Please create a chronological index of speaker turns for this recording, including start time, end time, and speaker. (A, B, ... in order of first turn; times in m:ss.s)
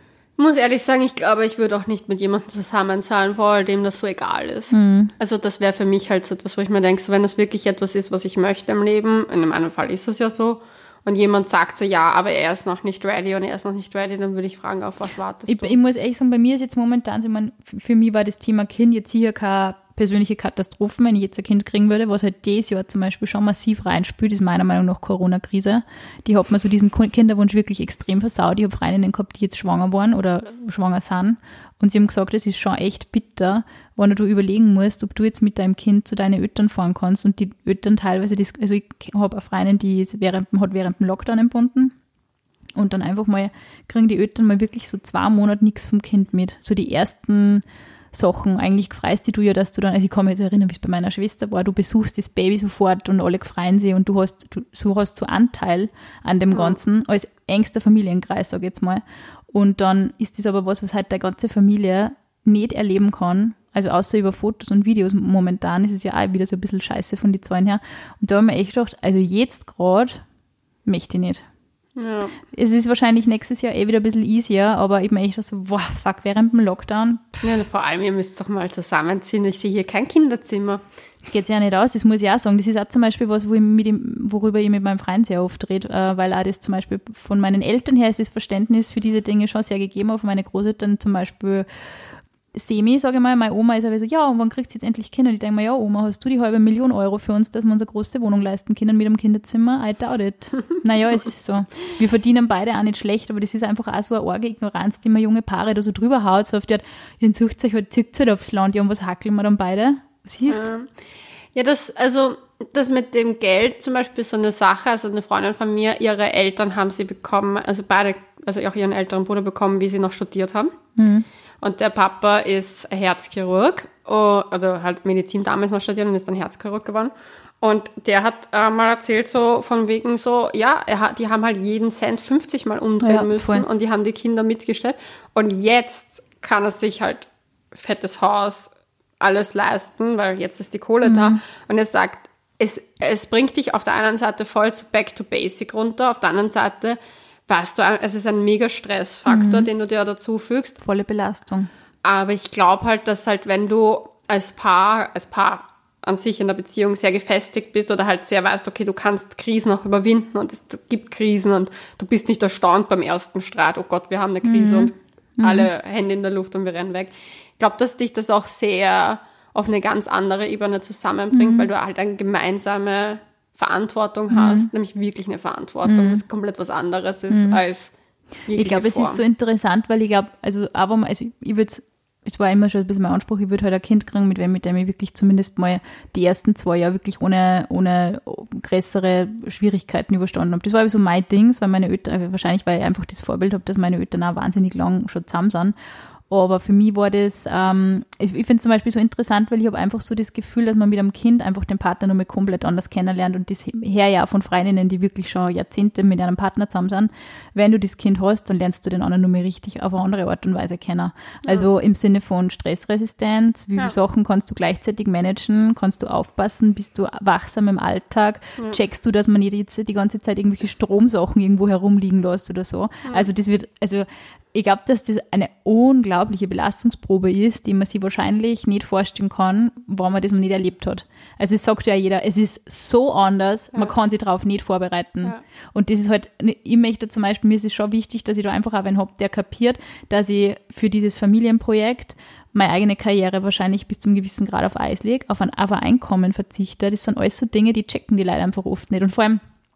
0:00.4-0:15.8 A
0:04.7-0:05.1 B
0:15.5-0:41.9 B
0:42.7-1:10.2 B
0:56.5-0:56.8 A
1:10.8-1:11.4 B
1:12.0-1:12.4 A
1:12.5-1:17.4 B
1:17.4-1:20.8 A
1:21.3-1:31.7 B
1:32.5-1:50.7 B
1:50.5-1:50.9 A
1:51.5-2:00.7 A
2:01.0-2:01.2 B
2:01.6-2:30.8 A
2:13.0-2:13.6 B
2:21.0-2:21.4 B
2:29.3-2:29.7 B
2:30.8-2:31.7 B
2:32.0-2:57.9 A
2:44.4-2:45.7 B
2:51.3-2:51.7 B
2:54.3-2:54.7 B
2:55.8-2:56.2 B
2:57.3-2:57.6 B
2:58.5-2:59.2 A
2:58.5-3:15.7 B
3:16.3-4:09.4 B